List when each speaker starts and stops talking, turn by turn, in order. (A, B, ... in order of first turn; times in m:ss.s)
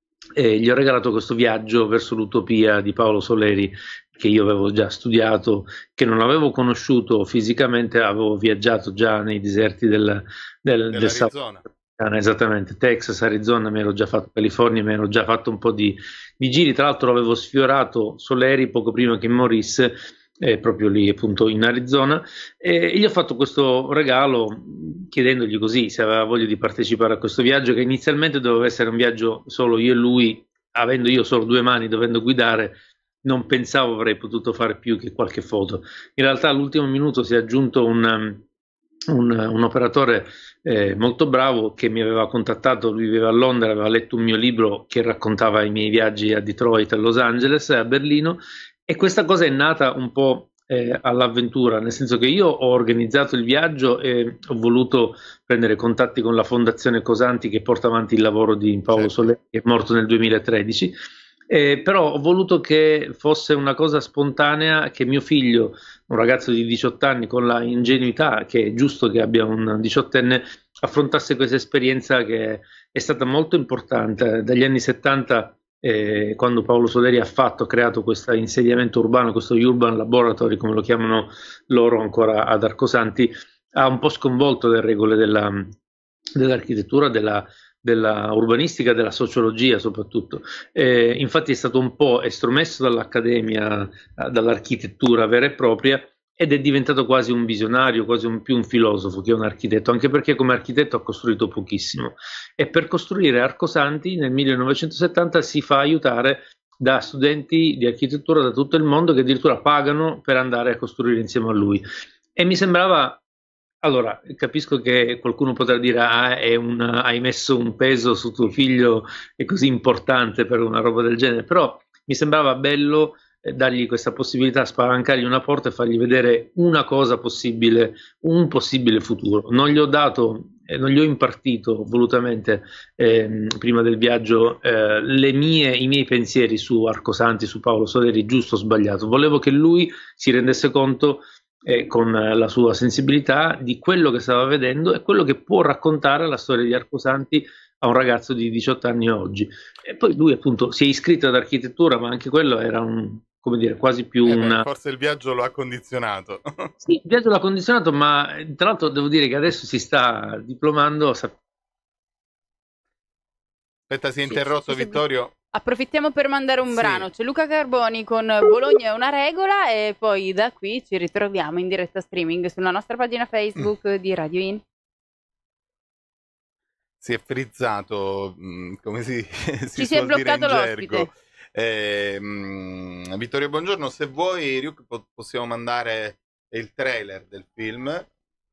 0:00.4-0:38.4 A
0:10.9-0:11.6 B
0:39.1-1:00.9 A
0:58.9-0:59.3 B
1:01.5-1:25.7 A
1:26.4-1:51.8 A
1:52.4-1:53.2 A
1:53.8-2:34.7 A
2:34.3-2:36.7 B
2:36.8-2:41.4 A
2:43.9-2:45.3 B
2:44.2-2:54.6 C
2:46.7-2:47.1 B
2:57.0-3:08.0 B
2:59.8-3:01.1 C